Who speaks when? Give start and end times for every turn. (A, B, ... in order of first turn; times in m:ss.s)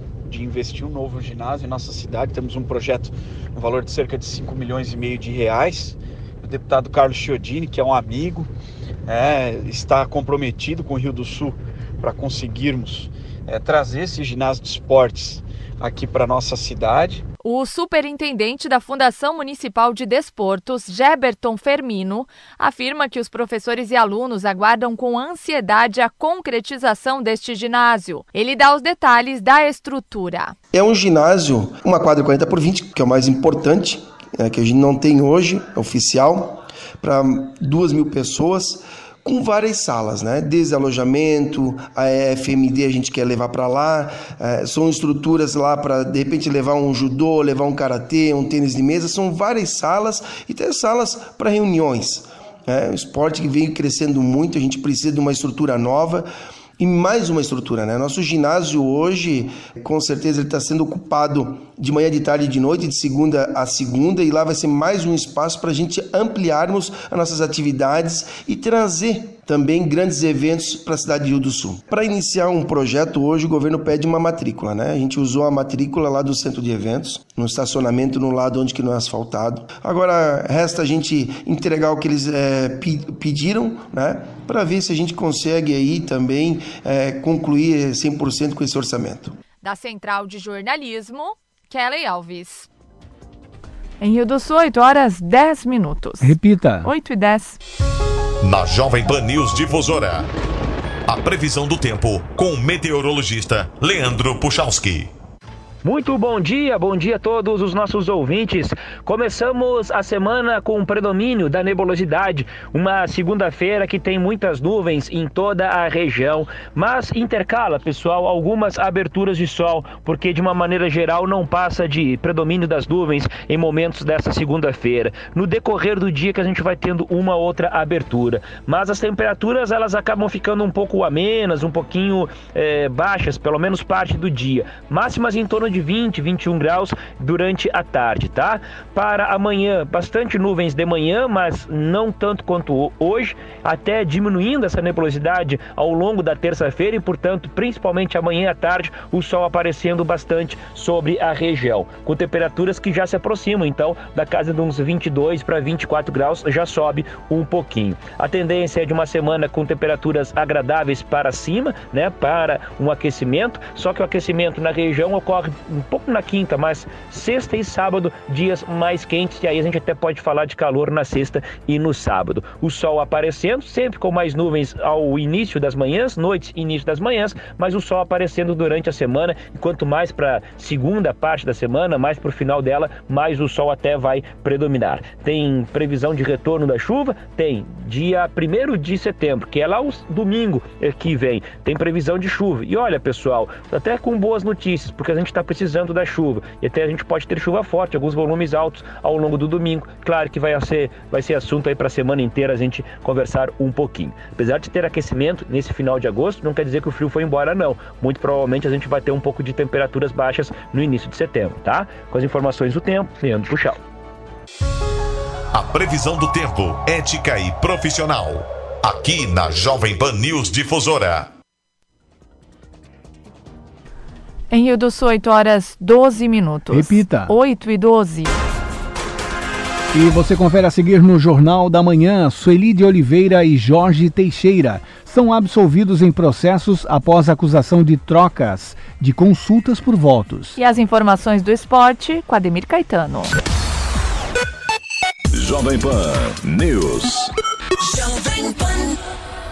0:00.3-0:08.5 A
0:09.1-0:17.2 A
0:17.4-0:30.6 B
0:30.7-0:56.3 C
0:56.8-1:29.4 C
1:29.6-1:32.7 B
1:34.0-1:37.6 B
1:36.2-1:36.9 D
1:38.4-1:40.2 E
1:41.1-1:45.1 E
1:45.8-3:33.8 F
3:35.5-3:41.3 E
3:44.5-3:48.4 B
3:46.7-3:47.3 D
3:49.9-4:00.6 D
4:00.6-4:03.3 B
4:05.3-4:07.3 G